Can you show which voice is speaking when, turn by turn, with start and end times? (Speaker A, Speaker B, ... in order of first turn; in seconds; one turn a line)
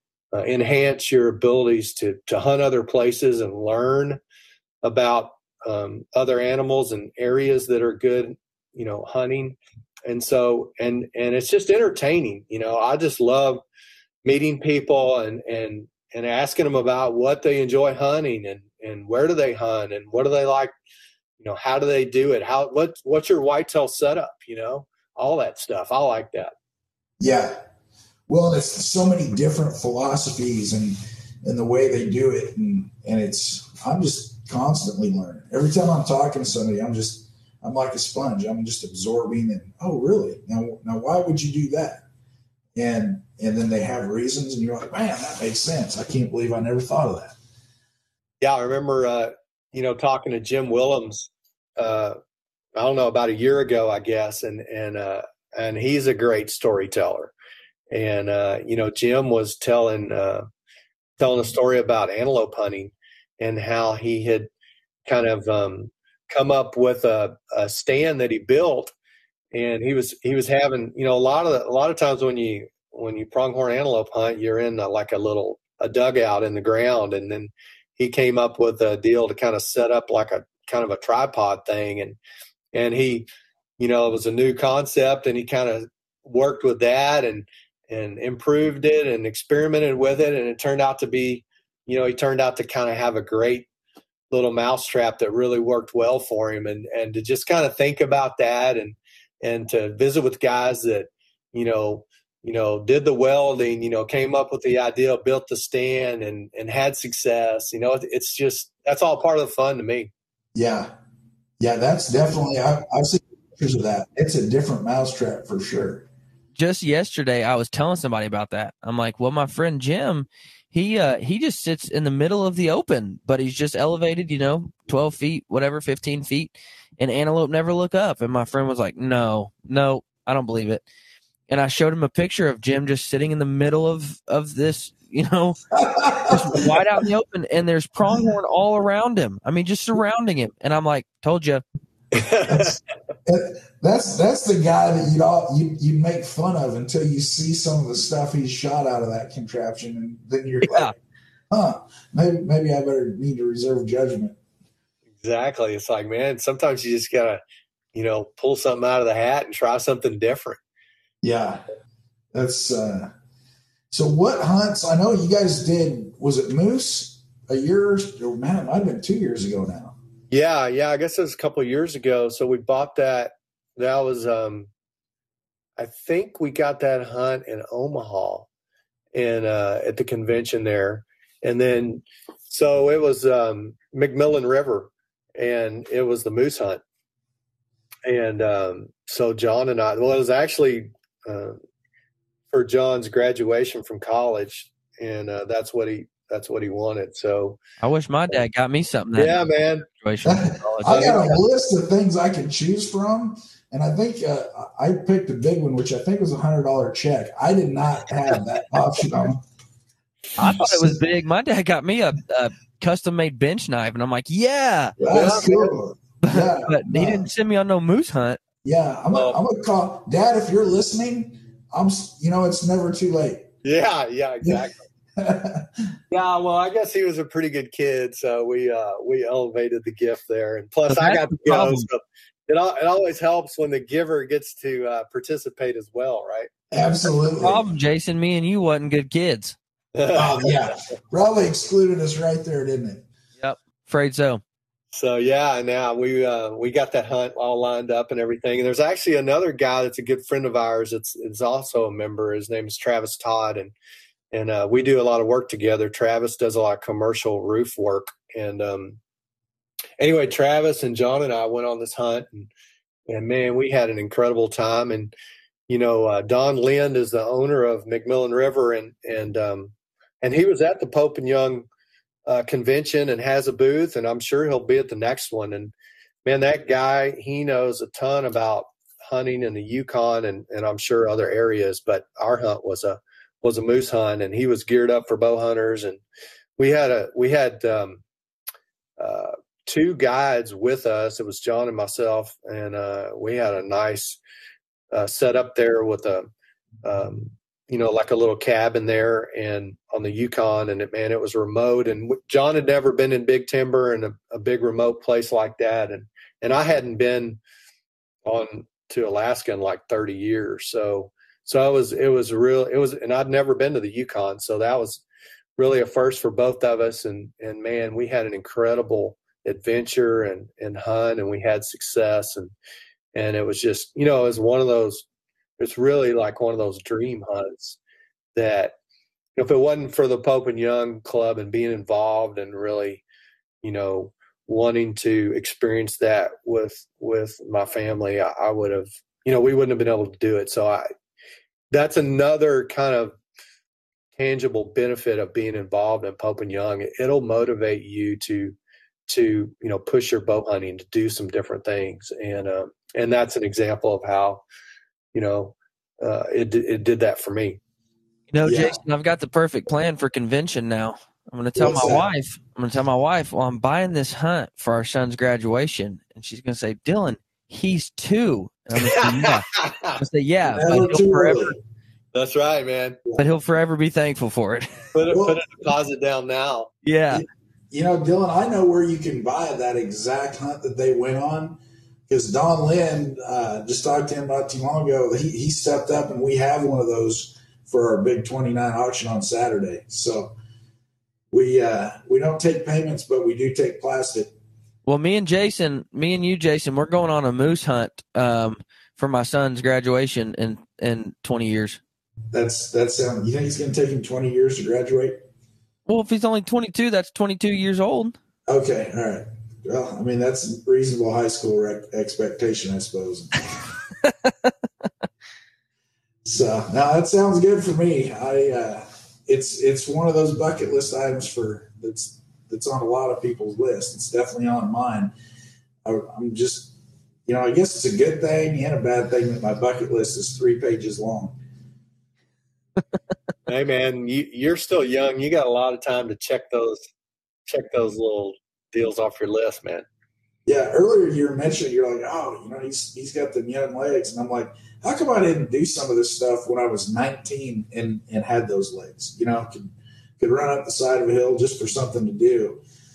Speaker A: 0.3-4.2
Speaker A: 4.8-13.6
Speaker A: 14.2-20.7
Speaker A: 21.4-26.5
Speaker B: 27.2-27.6
Speaker B: 28.3-42.0
Speaker B: 42.8-47.4
Speaker A: 48.4-52.2
Speaker A: 52.8-57.3
Speaker A: 57.9-60.5
Speaker A: 61.2-64.5
Speaker A: 65.1-68.9
Speaker A: 69.5-82.2
Speaker A: 82.7-83.3
Speaker A: 83.8-93.7
Speaker A: 94.3-110.1
Speaker B: 110.5-110.9
Speaker B: 111.6-116.1
Speaker C: 116.6-130.8
Speaker C: 131.5-135.6
Speaker B: 135.7-136.7
Speaker C: 136.3-141.6
Speaker A: 142.1-142.8
Speaker B: 142.5-150.9
Speaker C: 150.6-150.9
Speaker B: 151.5-154.4
Speaker A: 155.2-157.4
Speaker A: 157.9-160.6
Speaker B: 161.2-161.6
Speaker B: 162.3-163.1
Speaker B: 163.9-169.9
Speaker A: 170.3-174.7
Speaker A: 175.8-178.5
Speaker A: 179.1-186.8
Speaker A: 188.1-191.6
Speaker A: 192.5-197.6
Speaker C: 197.8-201.2
Speaker A: 199.2-199.9
Speaker B: 200.2-209.4
Speaker A: 200.8-201.4
Speaker B: 210.4-211.0
Speaker C: 210.4-215.0
Speaker B: 215.0-217.3
Speaker A: 215.1-215.8
Speaker C: 216.2-218.4
Speaker B: 218.6-223.5
Speaker A: 219.1-219.4
Speaker A: 223.6-224.9
Speaker B: 225.2-225.9
Speaker A: 226.1-236.5
Speaker C: 230.9-231.9
Speaker B: 236.7-237.6
Speaker C: 237.4-239.6
Speaker A: 239.9-240.6
Speaker B: 240.1-243.1
Speaker C: 243.4-244.4
Speaker A: 244.9-253.7
Speaker A: 254.3-259.0
Speaker A: 260.0-262.5
Speaker A: 263.1-265.1
Speaker A: 265.7-271.7
Speaker A: 272.3-275.7
Speaker A: 276.2-286.0
Speaker A: 286.6-288.0
Speaker A: 289.0-294.2
Speaker A: 294.9-296.3
Speaker A: 296.8-307.4
Speaker A: 308.2-315.0
Speaker A: 315.6-322.5
Speaker A: 323.1-325.1
Speaker A: 325.6-327.8
Speaker A: 328.4-328.7
Speaker A: 329.4-333.0
Speaker A: 333.6-340.9
Speaker A: 341.7-343.2
Speaker A: 344.2-348.6
Speaker A: 349.1-354.4
Speaker A: 355.1-357.6
Speaker C: 358.3-371.6
Speaker B: 358.4-358.8
Speaker B: 361.6-362.1
Speaker A: 368.8-370.0
Speaker B: 370.4-371.6
Speaker A: 372.1-373.0
Speaker C: 373.2-374.9
Speaker A: 374.9-376.7
Speaker B: 375.1-375.4
Speaker C: 376.9-377.2
Speaker B: 377.1-390.3
Speaker B: 391.3-394.3
Speaker C: 394.9-401.8
Speaker B: 402.3-405.2
Speaker C: 405.9-408.1
Speaker B: 408.5-413.5
Speaker B: 416.2-425.1
Speaker B: 425.9-426.8
Speaker B: 427.3-431.4
Speaker A: 433.5-436.9
Speaker A: 437.5-439.9
Speaker B: 440.5-452.6